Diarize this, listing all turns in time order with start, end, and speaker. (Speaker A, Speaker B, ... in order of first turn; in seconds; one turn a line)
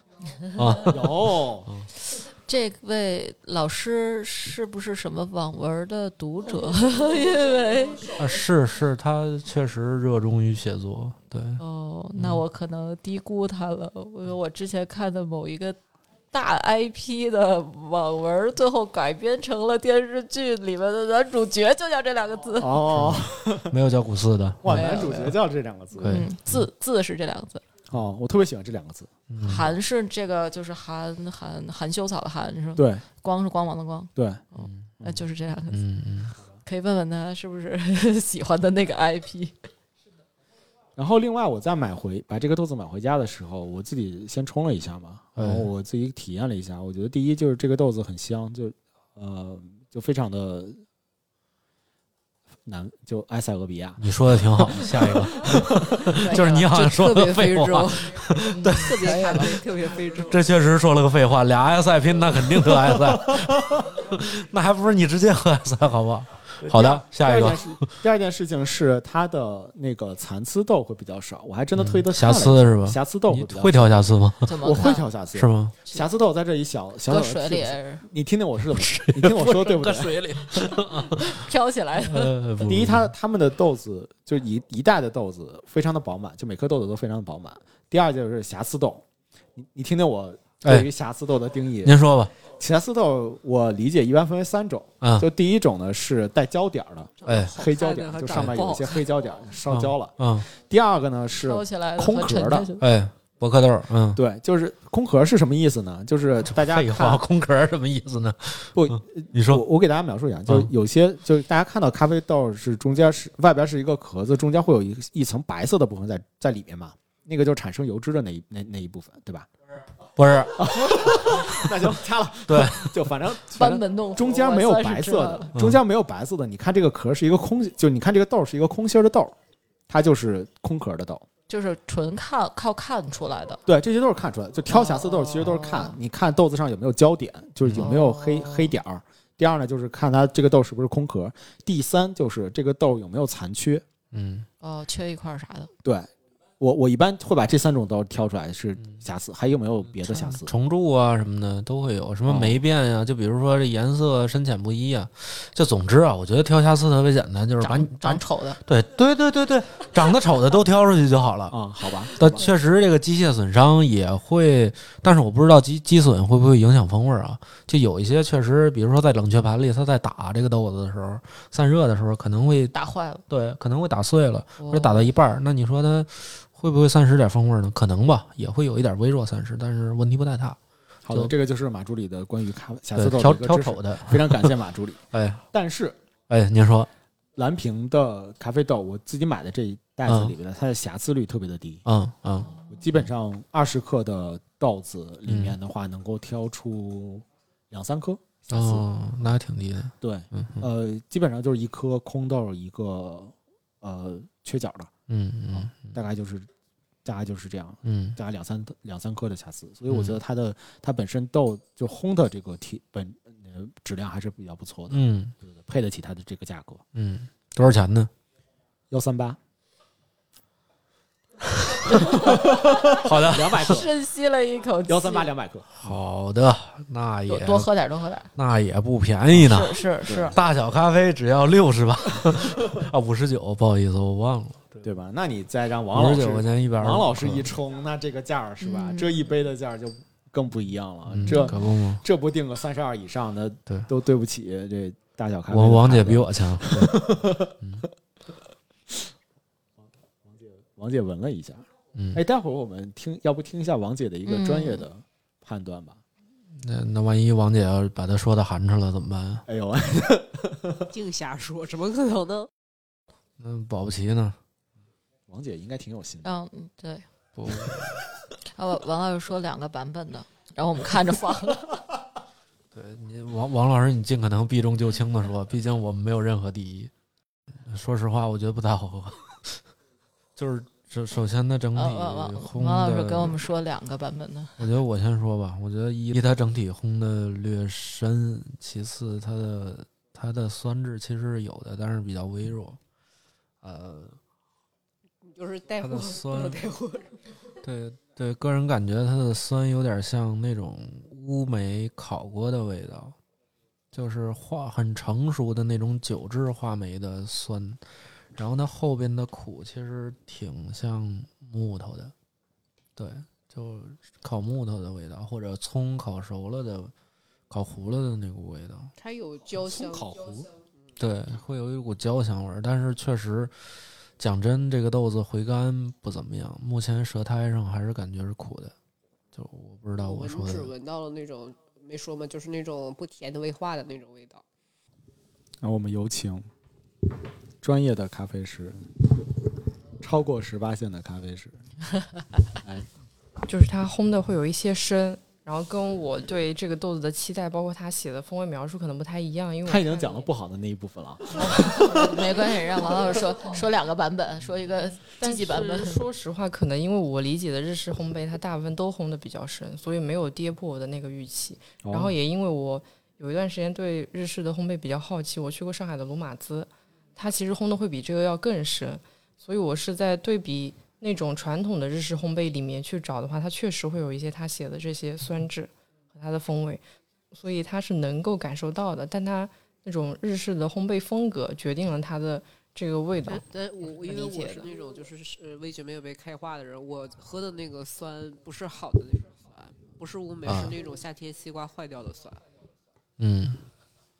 Speaker A: 0.5-1.9
Speaker B: 0.8-1.7
Speaker C: 2.1-8.2
Speaker A: 8.2-11.6
Speaker C: 11.6-15.8
Speaker A: 12.1-12.4
Speaker C: 16.3-22.8
Speaker B: 22.6-23.8
Speaker A: 22.9-24.8
Speaker B: 24.6-26.2
Speaker C: 24.7-25.4
Speaker C: 26.0-27.6
Speaker A: 26.0-26.6
Speaker B: 27.9-29.1
Speaker A: 29.3-29.7
Speaker C: 29.4-35.8
Speaker B: 32.8-33.0
Speaker B: 34.1-34.4
Speaker A: 34.6-34.9
Speaker A: 35.7-36.3
Speaker C: 36.6-39.5
Speaker B: 41.0-50.8
Speaker A: 45.4-45.7
Speaker B: 52.6-56.2
Speaker A: 54.0-59.6
Speaker C: 56.1-56.7
Speaker D: 56.5-60.4
Speaker C: 58.5-59.6
Speaker A: 60.3-67.9
Speaker B: 62.5-63.9
Speaker B: 66.6-80.8
Speaker A: 71.8-74.5
Speaker C: 74.4-75.1
Speaker A: 75.3-75.8
Speaker C: 77.1-78.0
Speaker A: 78.8-83.1
Speaker C: 81.2-82.3
Speaker B: 82.6-102.7
Speaker A: 91.8-92.3
Speaker A: 95.0-95.3
Speaker D: 97.2-99.1
Speaker A: 97.2-97.5
Speaker A: 98.3-98.6
Speaker A: 99.7-100.5
Speaker C: 101.4-102.8
Speaker A: 102.8-104.2
Speaker B: 104.1-107.2
Speaker A: 106.5-109.6
Speaker B: 108.7-119.5
Speaker A: 120.2-121.9
Speaker B: 120.6-129.3
Speaker A: 122.5-123.1
Speaker C: 123.5-125.5
Speaker B: 129.9-131.2
Speaker C: 131.5-133.6
Speaker B: 133.7-143.8
Speaker C: 134.7-136.0
Speaker A: 137.6-137.9
Speaker C: 137.8-138.7
Speaker A: 144.1-144.5
Speaker C: 144.6-145.7
Speaker B: 145.8-150.5
Speaker A: 150.0-161.6
Speaker B: 152.3-152.6
Speaker C: 157.6-158.6
Speaker B: 161.5-162.4
Speaker A: 162.2-172.7
Speaker C: 162.2-162.5
Speaker C: 172.7-173.2
Speaker A: 173.3-180.6
Speaker C: 174.6-175.1
Speaker B: 181.0-186.0
Speaker A: 182.9-184.6
Speaker A: 185.1-185.4
Speaker A: 186.3-186.9
Speaker B: 187.3-191.8
Speaker A: 190.1-190.3
Speaker A: 191.8-192.5
Speaker C: 192.4-192.8
Speaker B: 192.7-198.8
Speaker A: 195.2-195.6
Speaker A: 198.5-200.7
Speaker B: 200.0-204.9
Speaker A: 205.1-205.9
Speaker B: 205.5-206.5
Speaker B: 207.0-216.8
Speaker A: 207.8-208.2
Speaker A: 209.9-210.2
Speaker A: 214.9-215.3
Speaker A: 216.9-218.1
Speaker B: 218.9-219.4
Speaker C: 221.9-222.5
Speaker B: 222.1-223.9
Speaker A: 222.9-223.8
Speaker C: 223.6-225.3
Speaker B: 224.8-225.9
Speaker A: 225.8-227.7
Speaker C: 227.3-228.3
Speaker A: 228.3-234.8
Speaker C: 229.3-230.3
Speaker B: 230.1-230.4
Speaker B: 234.8-247.8
Speaker A: 235.9-237.5
Speaker C: 238.6-239.2
Speaker A: 241.1-242.0
Speaker C: 241.2-241.5
Speaker A: 245.5-247.8
Speaker B: 249.8-256.0
Speaker A: 251.9-252.2
Speaker C: 254.2-254.9
Speaker A: 256.5-259.4
Speaker B: 259.4-260.9
Speaker D: 260.9-262.5
Speaker A: 263.4-264.4
Speaker B: 265.3-266.3
Speaker C: 266.2-267.1
Speaker A: 267.3-268.0
Speaker C: 268.5-271.7
Speaker A: 272.7-276.9
Speaker A: 277.6-279.6
Speaker A: 280.4-283.4
Speaker C: 281.7-284.6
Speaker A: 284.6-292.8
Speaker A: 293.6-294.2
Speaker D: 295.2-297.2
Speaker A: 295.8-296.6
Speaker A: 297.6-303.1
Speaker A: 303.9-307.8
Speaker A: 308.3-312.1
Speaker A: 312.9-316.9
Speaker A: 317.5-318.9
Speaker D: 318.9-320.2
Speaker B: 319.6-320.5
Speaker A: 321.0-323.5
Speaker A: 324.2-328.7
Speaker A: 329.3-330.7
Speaker D: 330.0-334.4
Speaker B: 335.6-336.5
Speaker B: 337.6-338.9
Speaker B: 340.0-341.6
Speaker B: 342.6-342.9
Speaker E: 343.5-350.2
Speaker B: 349.6-352.4
Speaker C: 351.4-356.1
Speaker E: 355.2-384.7
Speaker B: 361.8-362.1
Speaker D: 383.2-392.4
Speaker A: 390.4-390.8
Speaker A: 393.2-393.6